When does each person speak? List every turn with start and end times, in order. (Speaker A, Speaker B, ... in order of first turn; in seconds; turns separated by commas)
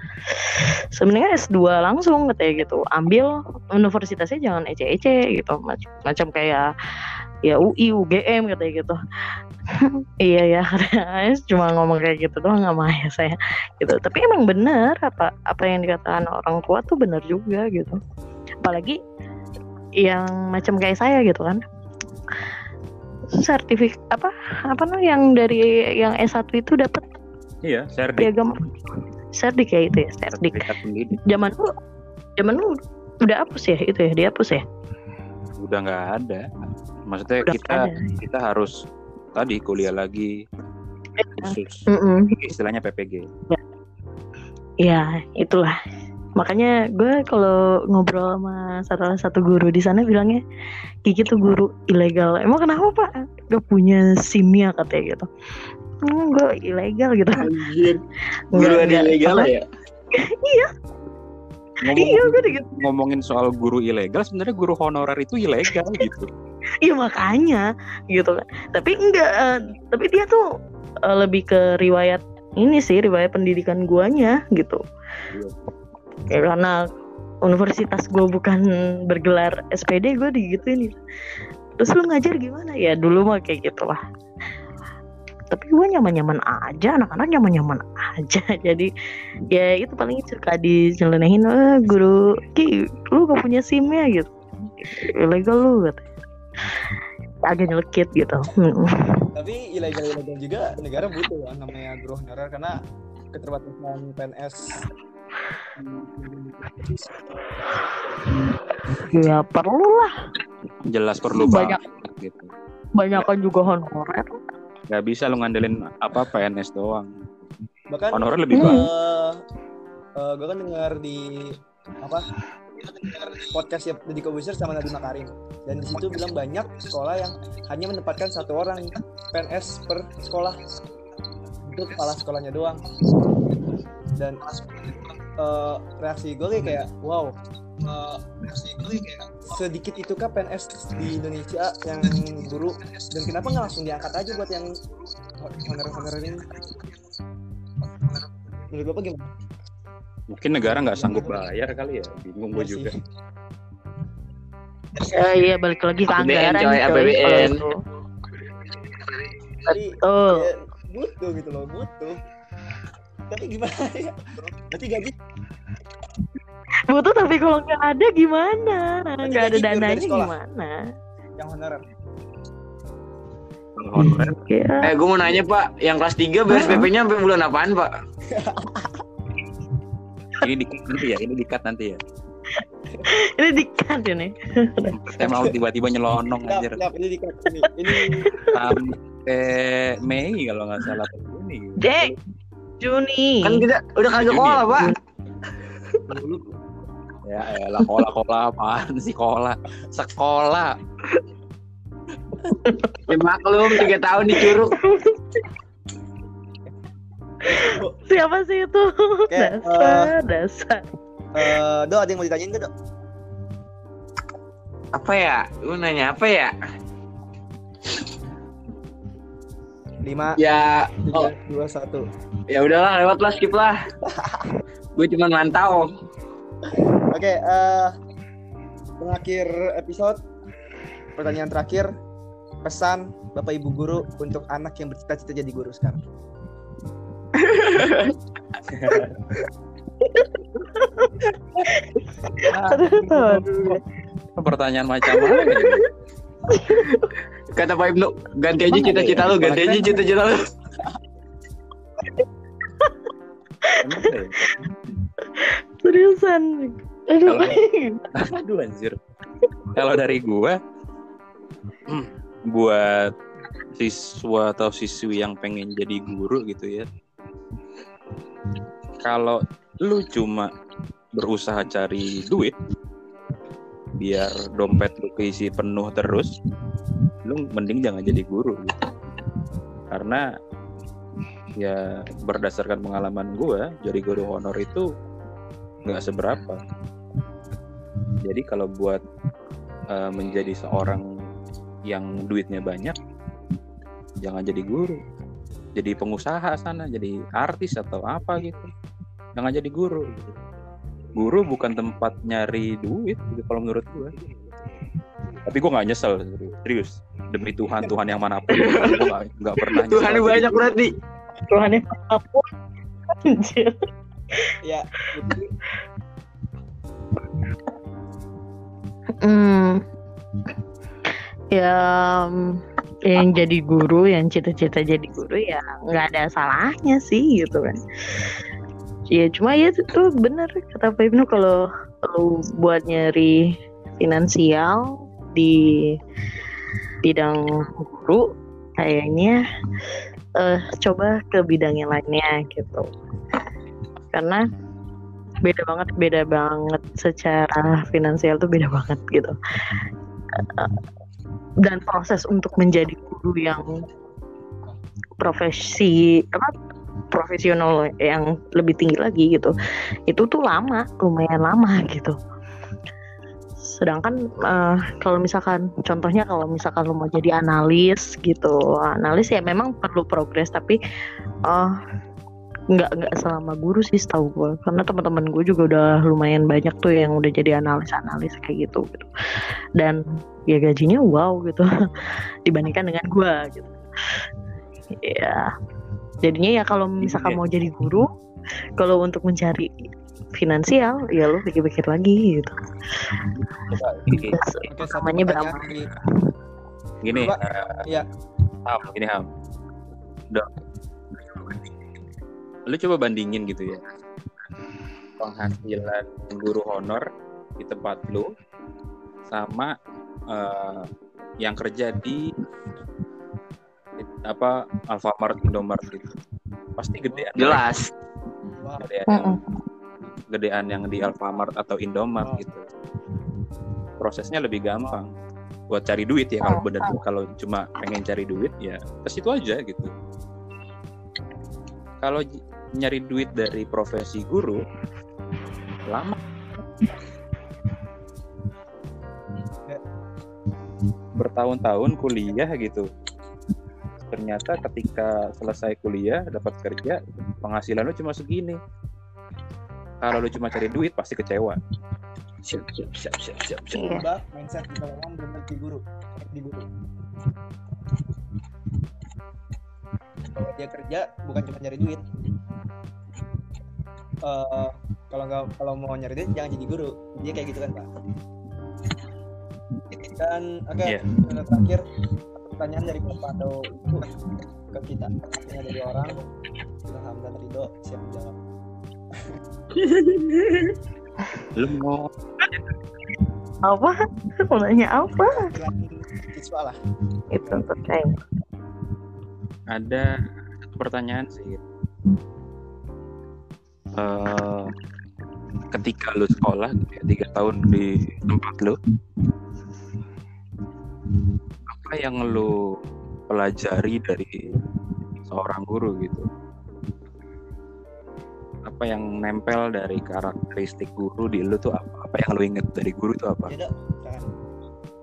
Speaker A: 0.4-6.7, Speaker A: 7.4-9.0, Speaker A: 9.8-18.0, Speaker A: 18.6-19.0, Speaker A: 20.0-21.6, Speaker A: 23.3-27.0, Speaker B: 27.6-28.3, Speaker A: 28.2-28.7, Speaker A: 29.4-30.7, Speaker B: 30.4-31.2, Speaker A: 31.2-31.7, Speaker A: 32.4-34.6, Speaker B: 35.6-36.5, Speaker B: 37.1-38.7, Speaker A: 37.5-38.0, Speaker B: 39.3-40.3, Speaker A: 41.2-42.5, Speaker B: 41.4-43.3, Speaker A: 44.8-45.7, Speaker A: 46.4-50.4, Speaker A: 51.1-55.3, Speaker A: 56.0-57.5, Speaker C: 57.4-58.0, Speaker A: 58.5-59.5, Speaker C: 58.5-59.6, Speaker A: 60.1-60.7, Speaker B: 61.8-66.3, Speaker A: 61.9-62.6, Speaker A: 66.8-70.4, Speaker A: 71.1-74.8, Speaker B: 75.3-75.6, Speaker A: 76.3-76.8, Speaker A: 77.4-81.0, Speaker A: 81.8-84.0, Speaker A: 85.5-88.9, Speaker A: 89.5-96.0, Speaker A: 97.5-99.2, Speaker D: 99.3-102.8, Speaker D: 103.3-104.8, Speaker D: 106.2-107.0, Speaker A: 108.9-110.1, Speaker B: 110.9-112.5, Speaker A: 111.3-111.8, Speaker A: 113.0-114.4, Speaker B: 114.9-117.1, Speaker D: 117.9-119.4, Speaker B: 118.1-118.8, Speaker A: 118.5-118.8, Speaker D: 120.2-122.3, Speaker D: 123.0-130.6, Speaker D: 131.7-132.8, Speaker D: 134.2-134.4, Speaker D: 135.4-144.7, Speaker D: 145.4-146.6, Speaker D: 148.7-149.3, Speaker B: 150.3-152.9, Speaker D: 150.6-151.5, Speaker D: 152.5-152.9, Speaker A: 155.0-157.8, Speaker C: 156.1-157.6, Speaker A: 159.7-160.5, Speaker D: 159.7-162.2, Speaker D: 163.3-165.1, Speaker A: 166.9-170.8, Speaker D: 169.2-170.3, Speaker D: 171.4-171.8, Speaker B: 173.8-174.3, Speaker A: 174.0-174.9, Speaker C: 174.8-177.9, Speaker A: 176.5-176.9, Speaker D: 178.3-179.0, Speaker B: 180.4-182.0, Speaker A: 183.0-185.0, Speaker B: 184.9-186.8, Speaker D: 185.2-185.5, Speaker D: 186.4-188.3, Speaker A: 187.9-188.7, Speaker B: 188.5-192.1, Speaker A: 191.8-192.1, Speaker A: 192.8-193.7, Speaker C: 193.4-194.9, Speaker B: 194.2-194.8, Speaker D: 196.1-196.6, Speaker B: 197.2-200.8, Speaker A: 202.4-203.0, Speaker C: 203.1-204.8, Speaker A: 204.3-205.2, Speaker A: 207.5-210.8, Speaker D: 207.6-207.9, Speaker D: 209.3-210.1, Speaker D: 211.3-212.7, Speaker C: 214.9-216.5, Speaker D: 220.0-220.4, Speaker C: 220.3-221.3, Speaker D: 221.1-222.1, Speaker C: 222.5-223.8, Speaker D: 224.1-224.5, Speaker C: 224.9-225.9, Speaker D: 226.7-227.9, Speaker D: 229.0-230.2, Speaker D: 231.2-231.9, Speaker D: 232.6-236.0, Speaker C: 237.4-238.1, Speaker B: 238.7-239.2, Speaker A: 240.0-241.1, Speaker A: 241.7-243.8, Speaker B: 242.4-243.8, Speaker B: 244.4-245.8, Speaker A: 245.1-245.8, Speaker A: 246.5-247.1, Speaker C: 247.5-250.5, Speaker A: 248.7-249.3, Speaker B: 248.9-249.9, Speaker D: 248.9-249.8, Speaker A: 253.7-254.7, Speaker B: 253.8-254.4, Speaker A: 255.3-258.1, Speaker B: 257.2-257.6, Speaker B: 258.1-259.0, Speaker B: 259.7-260.6, Speaker B: 261.9-263.1, Speaker B: 263.8-266.9, Speaker B: 269.0-270.5, Speaker B: 271.1-272.5, Speaker B: 274.0-276.3, Speaker B: 277.2-278.9, Speaker B: 279.9-280.3, Speaker B: 281.6-284.9, Speaker B: 285.8-286.6, Speaker B: 288.2-289.0, Speaker B: 289.9-291.1, Speaker B: 291.9-293.0, Speaker B: 294.2-295.0, Speaker B: 295.7-298.6, Speaker B: 299.4-300.2, Speaker B: 301.1-304.1, Speaker B: 305.4-310.6, Speaker C: 308.5-309.0, Speaker C: 309.7-310.9, Speaker A: 311.5-312.5, Speaker A: 313.2-313.8, Speaker D: 314.6-315.5, Speaker A: 319.2-319.8, Speaker A: 321.5-328.3, Speaker A: 329.1-333.4, Speaker A: 334.0-336.0, Speaker A: 337.0-339.4, Speaker A: 340.4-342.9, Speaker A: 344.1-344.4, Speaker A: 345.4-349.4, Speaker A: 350.4-350.8, Speaker A: 351.6-353.8, Speaker A: 355.2-356.5, Speaker A: 357.1-359.5, Speaker A: 360.1-362.2, Speaker A: 363.6-370.8, Speaker A: 371.5-371.8, Speaker A: 372.7-379.1, Speaker A: 379.8-383.8, Speaker A: 385.0-385.5, Speaker A: 386.2-388.1, Speaker B: 387.0-387.4, Speaker A: 388.8-392.5, Speaker B: 393.6-394.4, Speaker A: 394.1-396.0, Speaker D: 394.7-395.9, Speaker B: 397.0-397.9, Speaker D: 397.1-398.1, Speaker B: 398.6-399.2, Speaker B: 402.7-403.9, Speaker B: 405.2-407.1, Speaker B: 407.6-408.3, Speaker B: 409.3-409.7, Speaker B: 410.3-410.9, Speaker B: 411.4-412.3, Speaker B: 414.0-416.1, Speaker B: 416.8-417.6, Speaker C: 417.4-417.9, Speaker D: 418.6-418.9, Speaker B: 418.8-419.4, Speaker A: 419.1-419.4, Speaker B: 420.3-422.6, Speaker B: 424.0-425.1, Speaker B: 425.7-429.9, Speaker A: 426.4-426.9, Speaker B: 432.0-434.6, Speaker B: 435.9-436.2, Speaker B: 441.2-442.9, Speaker B: 444.1-448.6, Speaker B: 450.0-451.6, Speaker C: 452.4-453.9, Speaker A: 453.7-454.1, Speaker D: 453.8-456.7, Speaker D: 460.4-462.1, Speaker D: 464.2-467.9, Speaker D: 470.1-474.1, Speaker B: 470.8-471.2, Speaker D: 474.7-476.2, Speaker D: 476.9-478.4, Speaker C: 479.7-480.8, Speaker B: 481.5-482.1, Speaker A: 483.6-485.5, Speaker D: 485.3-486.8, Speaker A: 487.3-488.1, Speaker B: 489.7-490.1, Speaker B: 490.7-491.6, Speaker B: 494.0-494.7, Speaker B: 495.7-498.8, Speaker B: 501.7-502.5, Speaker B: 503.3-504.4, Speaker B: 505.3-506.3, Speaker B: 508.6-513.5, Speaker D: 513.5-514.3